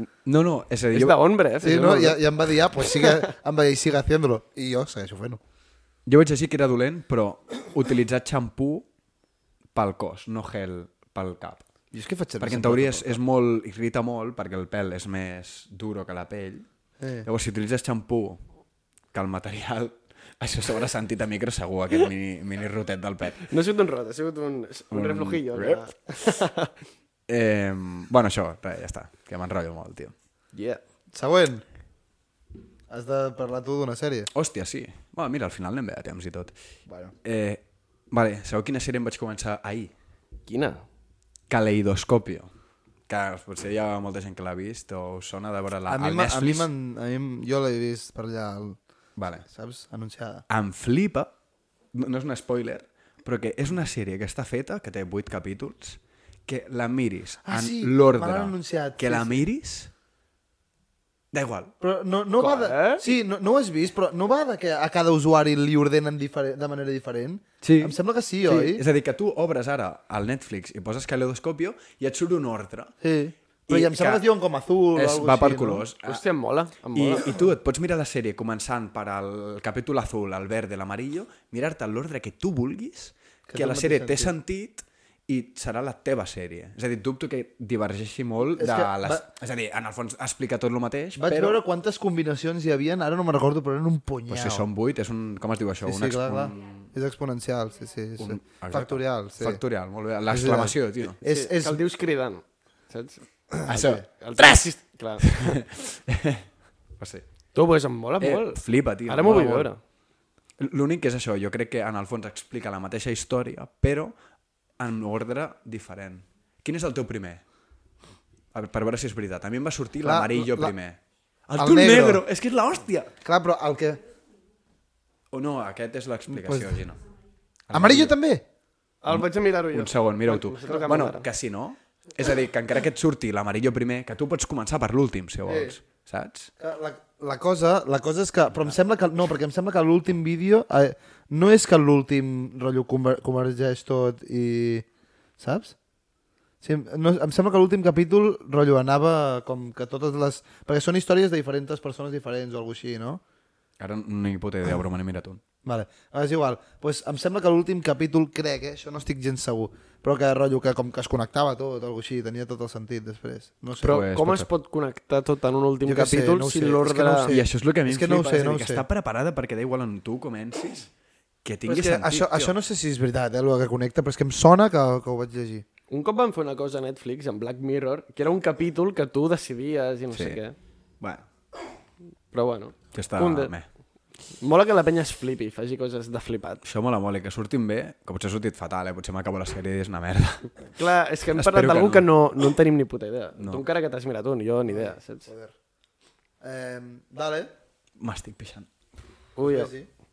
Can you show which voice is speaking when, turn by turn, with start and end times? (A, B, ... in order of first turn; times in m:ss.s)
0:00.2-0:01.2 A
0:00.9-0:02.2 B
0:01.6-0:05.4 C
0:02.8-0:03.2 B
0:06.0-0:08.8 A
0:09.7-0:11.6 A
0:11.9-0:13.2 C
0:12.4-0:16.7 A
0:17.0-0:17.3 C
0:17.2-0:18.4 A
0:19.1-0:23.5 A
0:23.4-0:26.7 B
0:24.9-0:25.9 A
0:27.3-0:30.1 A
0:30.5-0:30.8 B
0:31.1-0:31.6 C
0:32.9-0:34.3 C
0:34.3-0:36.5 A
0:36.8-0:37.1 C
0:37.2-0:39.9 A
0:40.5-0:40.8 B
0:41.5-0:42.5 A
0:43.1-0:46.7 A
0:45.9-0:48.8 C
0:49.2-0:49.4 A
0:49.4-0:50.4 C
0:50.5-0:51.3 A
0:51.9-0:59.9 A
0:57.4-0:59.4 C
1:01.3-1:01.7 A
1:01.8-1:08.8 C
1:02.4-1:03.1 B
1:07.6-1:12.9 A
1:13.0-1:15.8 C
1:13.7-1:14.2 A
1:14.9-1:16.2 A
1:16.0-1:17.3 B
1:16.9-1:31.6 A
1:23.5-1:24.3 C
1:28.5-1:29.2 C
1:31.2-1:34.6 C
1:34.3-1:36.9 A
1:35.8-1:39.6 C
1:38.2-1:41.2 A
1:40.3-1:41.8 C
1:41.2-1:45.6 B
1:43.6-1:44.0 C
1:43.6-1:44.6 A
1:45.2-1:46.4 A
1:47.0-1:47.2 A
1:47.5-1:49.8 B
1:48.2-1:49.7 A
1:50.6-1:54.1 A
1:54.8-1:57.4 A
1:58.5-2:03.1 A
2:00.0-2:00.7 C
2:01.6-2:02.2 C
2:03.2-2:04.0 C
2:05.3-2:07.0 A
2:06.3-2:06.8 C
2:07.7-2:08.1 A
2:07.7-2:08.4 C
2:09.0-2:11.2 B
2:09.1-2:16.5 A
2:15.4-2:15.7 C
2:16.6-2:24.8 C
2:25.4-2:25.8 C
2:26.6-2:33.2 C
2:33.8-2:35.4 A
2:35.6-2:44.0 C
2:43.8-2:47.3 B
2:43.8-2:44.5 A
2:45.8-2:48.8 C
2:47.3-2:50.9 A
2:51.4-2:52.5 A
2:51.6-2:55.6 C
2:55.9-3:00.6 B
3:00.1-3:00.4 A
3:02.3-3:03.5 B
3:02.9-3:03.6 A
3:04.4-3:06.6 B
3:06.6-3:10.5 A
3:10.8-3:15.3 B
3:11.3-3:12.1 A
3:13.4-3:13.6 A
3:14.7-3:15.5 C
3:16.4-3:17.5 C
3:18.0-3:18.7 A
3:19.4-3:19.7 B
3:19.4-3:19.9 C